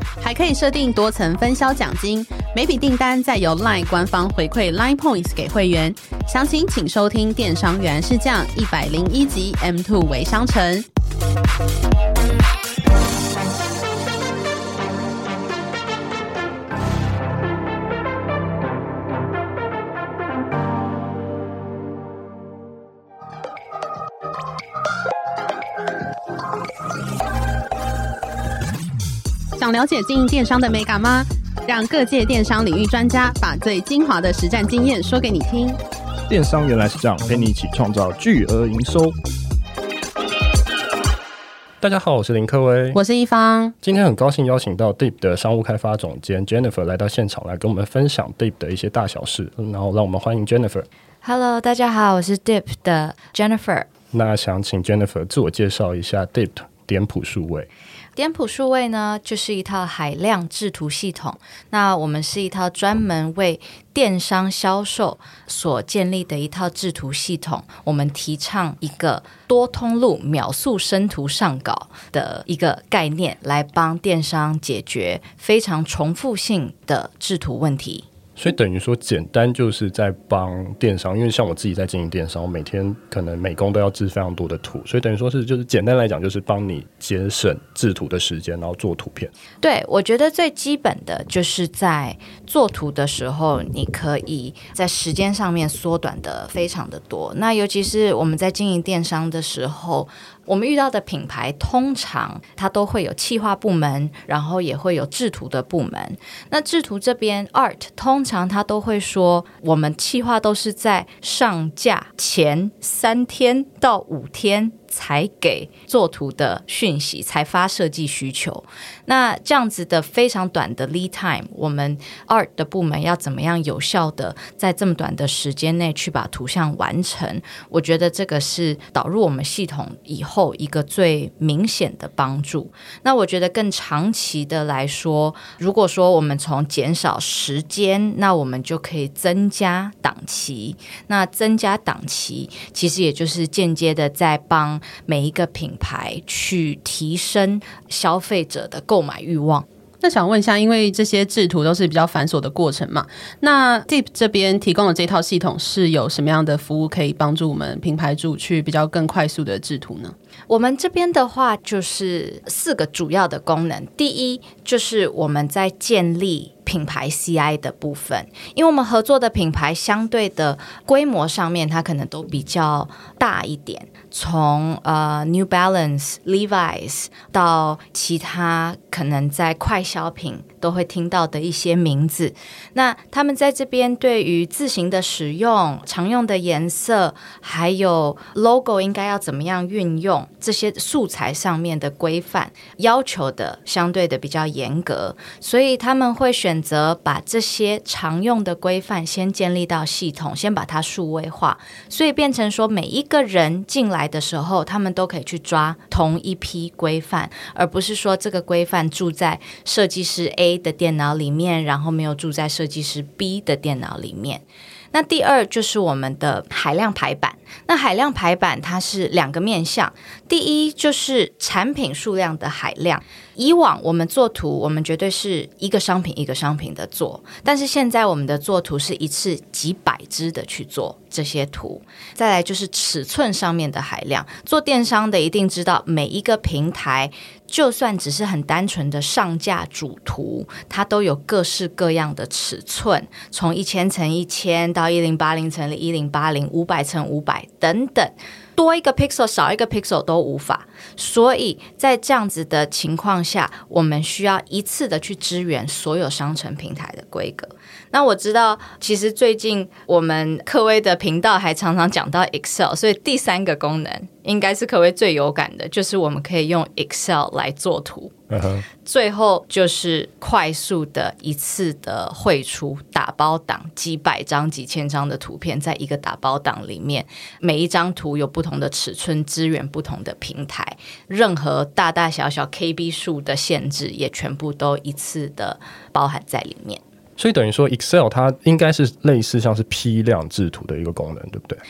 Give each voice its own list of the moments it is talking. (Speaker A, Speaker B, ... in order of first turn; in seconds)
Speaker A: 0.2-10.9, 29.6-35.8, 42.9-43.7, 150.0-160.2
Speaker B: 36.3-39.2, 41.8-43.0, 43.8-50.9, 54.1-57.7, 78.4-89.3, 268.3-268.6, 287.2-291.6
Speaker C: 51.2-53.9, 58.2-78.1, 89.6-149.7, 160.5-268.1, 268.9-286.8